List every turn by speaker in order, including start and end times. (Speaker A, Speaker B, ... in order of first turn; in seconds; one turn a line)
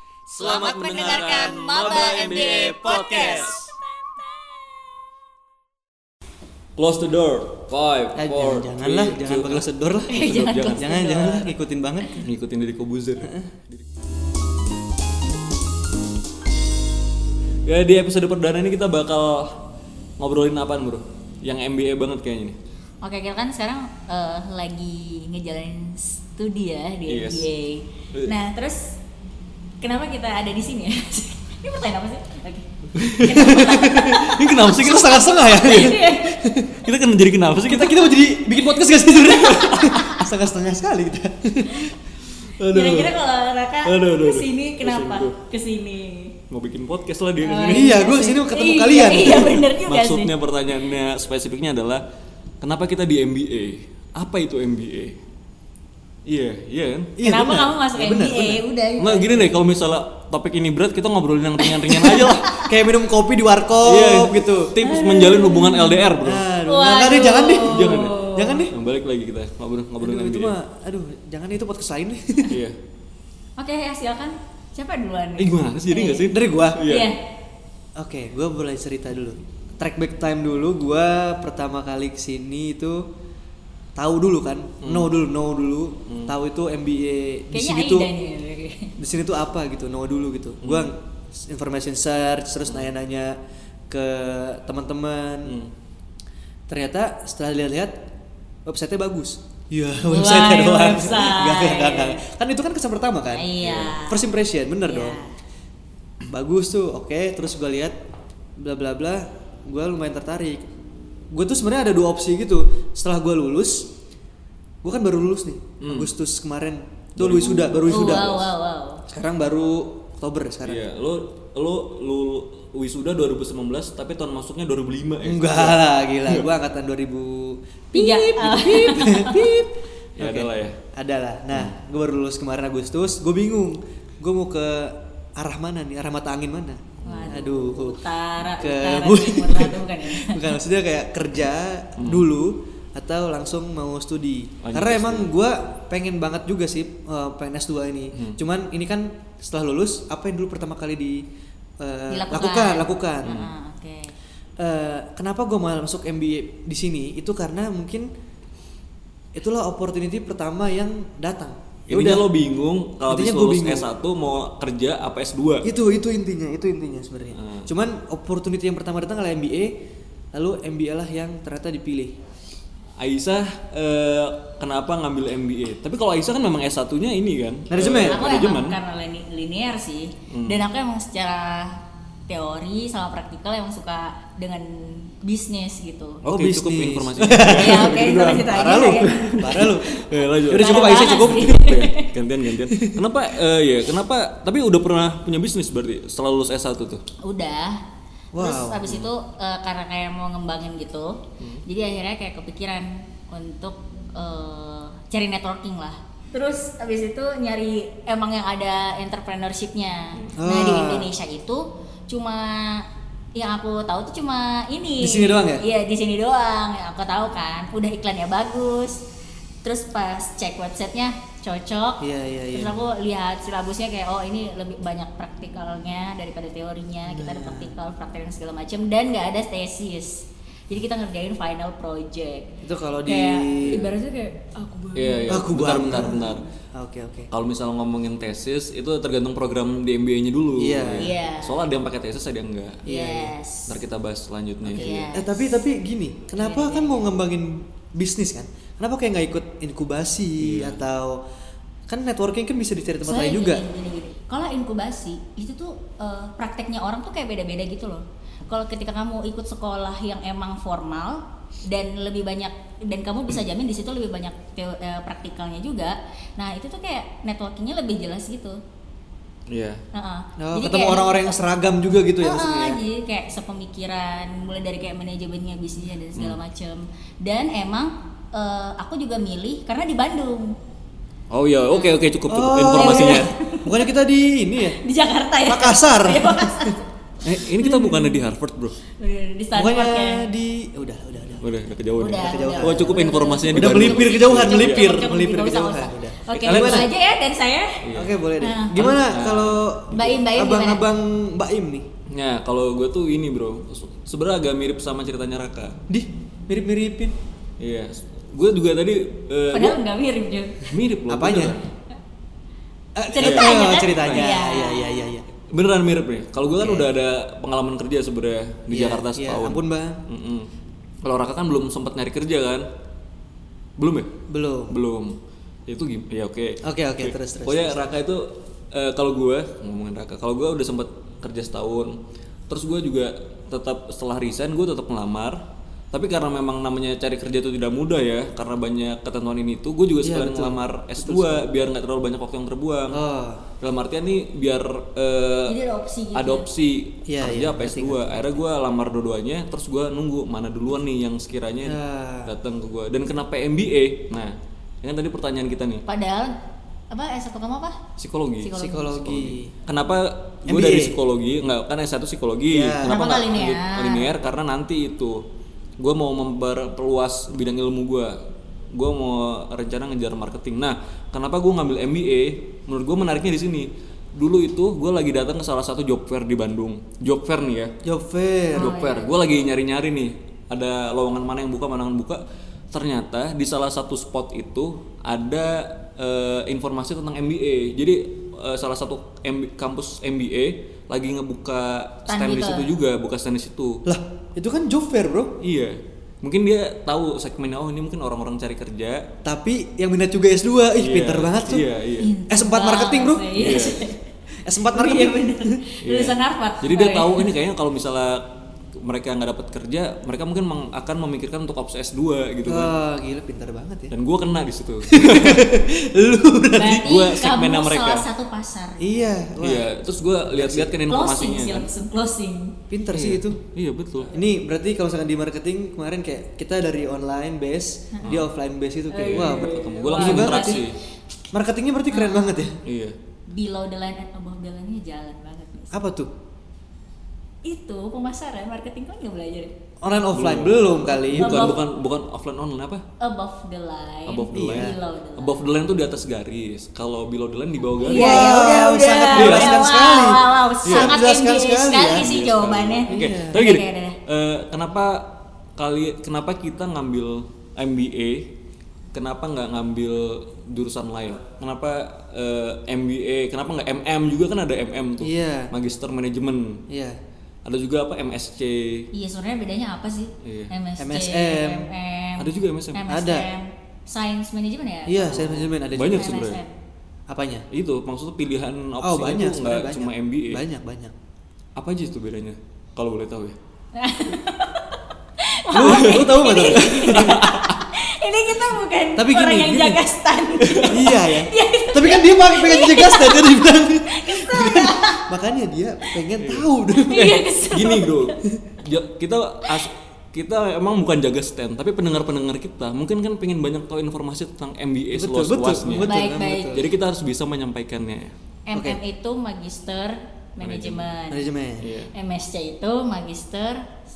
Speaker A: 0.3-3.7
Speaker B: 0.3-3.6
Speaker C: 0.4-0.8
Speaker C: 1.3-3.7
Speaker B: 6.8-10.9
Speaker C: 8.2-12.2
Speaker A: 10.1-11.5
Speaker B: 12.2-13.8
Speaker C: 13.2-13.5
Speaker B: 17.7-19.6
Speaker B: 20.2-22.6
Speaker A: 23.0-29.0
Speaker B: 27.1-27.5
Speaker A: 29.8-34.4
Speaker B: 33.0-36.0
Speaker C: 33.4-36.9
Speaker A: 35.4-36.4
Speaker B: 36.7-38.5
Speaker C: 37.6-42.0
Speaker B: 39.2-40.0
Speaker C: 42.6-43.1
Speaker A: 42.7-46.4
Speaker B: 43.8-45.3
Speaker B: 46.5-48.0
Speaker A: 47.4-50.3
Speaker C: 47.6-49.6
Speaker B: 49.2-52.0
Speaker B: 52.6-55.2
Speaker B: 56.3-57.1
Speaker C: 57.2-58.6
Speaker A: 57.2-59.6
Speaker B: 59.0-62.7
Speaker A: 61.6-62.7
Speaker C: 62.1-64.8
Speaker B: 63.8-66.5
Speaker A: 64.8-66.1
Speaker C: 66.2-68.7
Speaker A: 66.7-68.7
Speaker B: 67.6-70.5
Speaker C: 70.0-72.6
Speaker B: 72.5-72.8
Speaker A: 73.6-77.2
Speaker B: 75.4-77.1
Speaker C: 76.3-76.9
Speaker C: 78.0-83.1
Speaker C: 84.0-88.1
Speaker B: 84.8-85.1
Speaker B: 86.1-86.3
Speaker A: 87.5-89.0
Speaker C: 89.0-93.4
Speaker B: 90.6-90.9
Speaker C: 93.9-95.6
Speaker B: 95.5-95.7
Speaker C: 96.7-98.1
Speaker C: 98.7-105.2
Speaker A: 100.1-102.2
Speaker A: 103.3-104.2
Speaker B: 103.6-103.9
Speaker A: 104.8-105.3
Speaker C: 106.3-108.0
Speaker C: 108.6-110.7
Speaker C: 111.3-113.9
Speaker C: 114.8-118.5
Speaker B: 115.8-116.1
Speaker B: 117.2-118.4
Speaker A: 117.9-119.0
Speaker C: 119.1-120.9
Speaker B: 120.7-126.5
Speaker C: 125.2-151.2
Speaker A: 127.9-129.5
Speaker B: 130.2-130.8
Speaker B: 137.0-137.4
Speaker A: 137.0-140.6
Speaker B: 142.0-142.3
Speaker B: 144.6-145.3
Speaker B: 148.2-148.4
Speaker C: 151.8-153.4
Speaker A: 152.1-154.1
Speaker B: 153.2-153.5
Speaker C: 154.6-158.1
Speaker C: 159.3-162.3
Speaker B: 161.9-165.7
Speaker C: 163.1-163.9
Speaker C: 165.6-169.8
Speaker B: 167.3-167.7
Speaker C: 170.3-172.2
Speaker B: 173.0-178.8
Speaker C: 177.7-178.3
Speaker A: 177.8-186.2
Speaker B: 180.3-180.6
Speaker B: 186.2-197.0
Speaker C: 186.3-191.8
Speaker A: 187.5-189.7
Speaker A: 190.5-192.1
Speaker C: 192.7-193.0
Speaker A: 197.2-197.8
Speaker C: 198.3-198.9
Speaker A: 198.4-219.0
Speaker B: 210.2-210.4
Speaker C: 210.4-211.1
Speaker C: 215.0-215.7
Speaker A: 219.6-232.5
Speaker C: 222.0-222.8
Speaker C: 227.1-227.7
Speaker C: 232.6-233.9
Speaker A: 233.1-235.4
Speaker B: 234.9-236.4
Speaker C: 235.3-237.3
Speaker B: 237.3-242.8
Speaker C: 240.6-241.2
Speaker A: 240.9-241.6
Speaker C: 242.8-243.3
Speaker A: 242.9-243.8
Speaker B: 243.7-245.1
Speaker A: 244.7-245.6
Speaker C: 244.7-251.2
Speaker A: 246.4-247.0
Speaker B: 250.4-250.8
Speaker C: 251.9-253.6
Speaker A: 253.1-268.6
Speaker B: 269.5-269.8
Speaker A: 269.9-271.4
Speaker C: 270.4-272.8
Speaker A: 272.2-280.6
Speaker B: 281.3-283.3
Speaker A: 281.7-282.0
Speaker C: 282.3-284.8
Speaker A: 282.7-283.7
Speaker A: 284.8-286.9
Speaker C: 285.5-286.8
Speaker B: 287.2-288.8
Speaker A: 287.6-288.3
Speaker A: 289.0-290.3
Speaker C: 289.6-291.4
Speaker B: 291.4-295.0
Speaker A: 292.0-297.9
Speaker C: 292.1-296.9
Speaker B: 296.3-296.9
Speaker B: 297.8-298.2
Speaker C: 297.9-301.9
Speaker A: 298.4-298.9
Speaker B: 298.8-299.8
Speaker A: 299.9-300.9
Speaker B: 302.1-305.8
Speaker C: 305.9-307.1
Speaker B: 307.6-309.8
Speaker A: 309.5-310.7
Speaker B: 310.7-311.6
Speaker C: 311.1-311.6
Speaker C: 312.9-315.3
Speaker A: 313.1-315.1
Speaker B: 313.2-314.3
Speaker B: 315.5-320.5
Speaker C: 316.6-316.9
Speaker C: 318.7-320.0
Speaker B: 321.0-322.7
Speaker B: 323.8-324.2
Speaker C: 324.3-324.8
Speaker B: 324.7-332.0
Speaker C: 326.6-327.9
Speaker B: 332.5-343.0
Speaker C: 340.0-341.4
Speaker C: 342.9-343.5
Speaker B: 343.6-345.6
Speaker A: 345.5-346.5
Speaker B: 346.1-355.9
Speaker C: 347.1-348.4
Speaker C: 351.6-352.3
Speaker A: 355.9-356.4
Speaker A: 356.9-357.8
Speaker B: 358.0-365.2
Speaker A: 358.4-359.0
Speaker C: 358.5-359.5
Speaker C: 360.5-361.0
Speaker C: 362.5-363.0
Speaker A: 362.9-364.1
Speaker B: 365.8-368.2
Speaker B: 368.7-377.7
Speaker C: 377.8-378.7
Speaker A: 378.5-379.2
Speaker B: 378.6-393.9
Speaker A: 392.1-392.7
Speaker C: 393.9-395.4
Speaker B: 395.4-399.1
Speaker C: 399.2-401.7
Speaker B: 400.8-402.1
Speaker A: 402.0-404.0
Speaker C: 402.3-403.7
Speaker B: 403.4-403.8
Speaker C: 404.4-405.6
Speaker A: 404.7-407.3
Speaker B: 405.8-412.8
Speaker C: 412.5-413.9
Speaker B: 413.9-415.7
Speaker C: 414.9-417.0
Speaker A: 416.6-419.0
Speaker B: 416.6-418.1
Speaker C: 418.8-419.7
Speaker B: 419.4-421.7
Speaker C: 420.3-420.8
Speaker A: 420.9-422.6
Speaker C: 422.7-423.4
Speaker B: 422.9-424.1
Speaker C: 424.1-430.6
Speaker B: 428.0-428.3
Speaker A: 428.9-430.8
Speaker B: 429.1-430.8
Speaker C: 431.3-432.6
Speaker A: 431.9-432.5
Speaker B: 432.6-433.0
Speaker A: 433.3-435.8
Speaker C: 435.7-436.1
Speaker A: 437.4-439.5
Speaker C: 439.8-441.6
Speaker B: 440.1-442.9
Speaker A: 441.1-441.6
Speaker A: 443.0-445.4
Speaker B: 444.1-448.4
Speaker C: 444.3-444.8
Speaker A: 447.8-454.0
Speaker C: 447.9-452.1
Speaker B: 449.1-449.6
Speaker B: 450.7-451.0
Speaker B: 451.9-458.3
Speaker C: 452.9-453.4
Speaker B: 458.9-466.6
Speaker C: 465.0-465.5
Speaker C: 466.7-467.0
Speaker B: 467.4-468.9
Speaker A: 468.9-476.5
Speaker B: 470.2-470.5
Speaker C: 470.8-471.7
Speaker B: 472.2-472.9
Speaker C: 472.9-473.3
Speaker C: 474.9-476.2
Speaker B: 475.7-476.4
Speaker C: 477.1-477.5
Speaker B: 477.5-480.4
Speaker C: 478.8-480.9
Speaker B: 481.6-483.4
Speaker A: 483.8-495.1
Speaker C: 485.5-487.3
Speaker B: 485.6-487.6
Speaker C: 489.0-489.8
Speaker B: 490.4-490.8
Speaker C: 490.6-497.2
Speaker B: 496.2-496.5
Speaker A: 496.8-498.1
Speaker B: 497.5-505.9
Speaker C: 504.9-506.6
Speaker A: 505.8-506.6
Speaker B: 506.5-508.1
Speaker A: 508.5-511.3
Speaker C: 508.5-508.8
Speaker B: 510.4-510.9
Speaker C: 511.1-511.7
Speaker B: 511.6-511.9
Speaker A: 511.9-513.7